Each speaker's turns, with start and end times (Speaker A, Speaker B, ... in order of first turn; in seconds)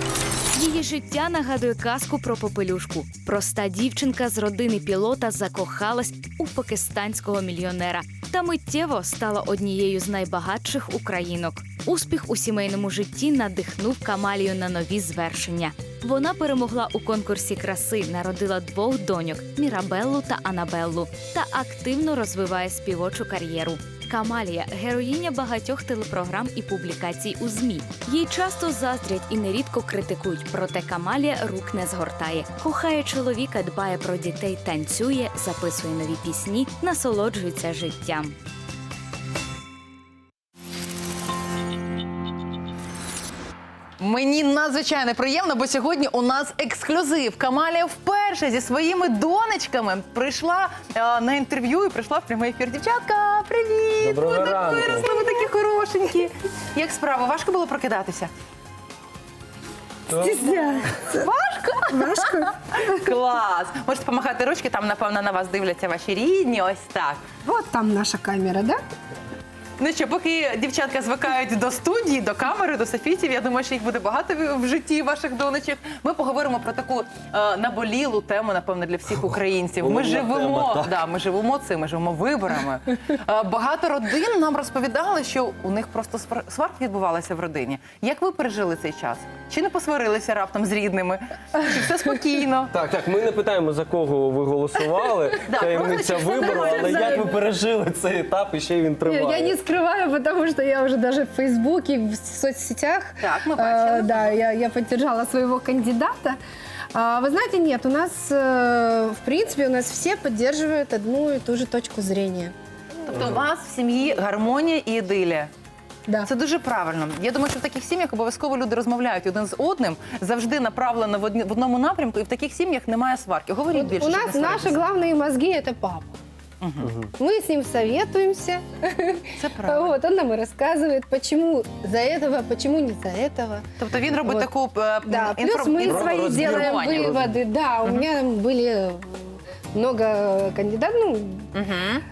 Speaker A: 0.5-38.3
Speaker B: 44.0-58.3, 61.1-67.2, 69.8-92.7, 95.5-97.3, 103.2-104.4, 113.0-115.5, 116.2-124.8, 126.6-126.9, 129.4-130.0, 133.8-137.2, 141.5-142.0
Speaker C: 54.0-55.1, 60.1-60.5, 79.8-81.0, 92.7-99.5, 126.8-127.1, 135.8-137.4
Speaker D: 60.1-61.3, 61.9-63.1, 67.4-68.8, 96.2-97.3, 99.0-106.4, 106.9-112.5, 123.7-126.2, 127.2-133.7, 134.2-134.5, 135.0-141.5